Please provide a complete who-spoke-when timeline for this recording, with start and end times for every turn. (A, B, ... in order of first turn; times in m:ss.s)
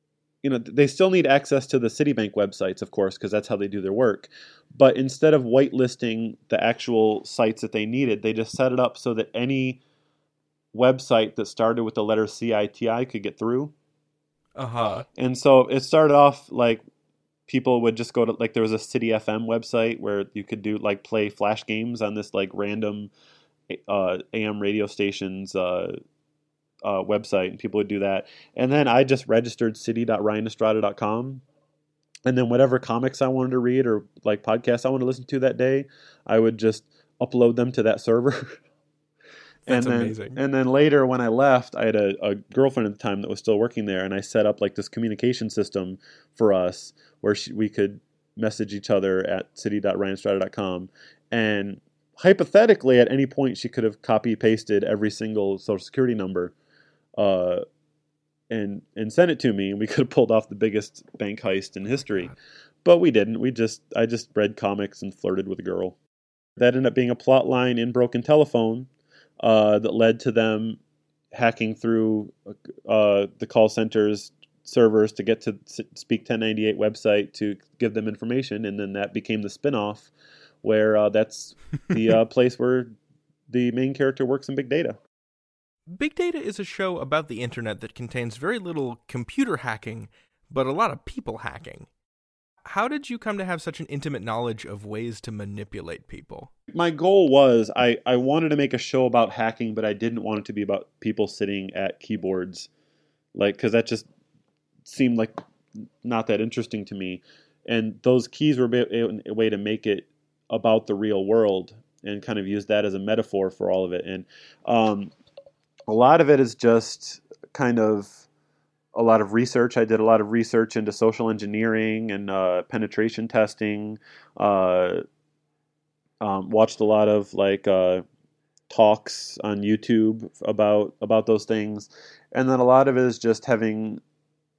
0:00.4-0:09.8 A
0:10.7-0:13.7 A
0:14.6-0:15.1 B
0:15.2-0:16.8 A
0:17.5-0:23.1 A
0:23.7-0:26.0 A
0:26.8-0:31.4 A
0:32.3-0:38.6 A
0:39.7-0:40.4 B
0:39.7-0:56.5 A
0:57.2-0:57.6 A
0:58.5-1:02.3 A
1:02.8-1:06.0 A
1:06.6-1:08.9 A
1:09.4-1:10.8 A
1:11.3-1:12.3 A
1:12.9-1:20.1 A
1:20.6-1:22.9 A
1:23.5-1:25.0 A
1:25.9-1:31.9 B
1:32.6-1:36.5 B
1:36.7-1:42.7 A
1:43.4-1:44.1 A
1:44.9-1:45.4 A
1:46.0-1:55.1 A
1:55.9-1:58.3 A
1:58.9-2:05.0 A
2:06.2-2:08.0 A
2:08.7-2:14.0 A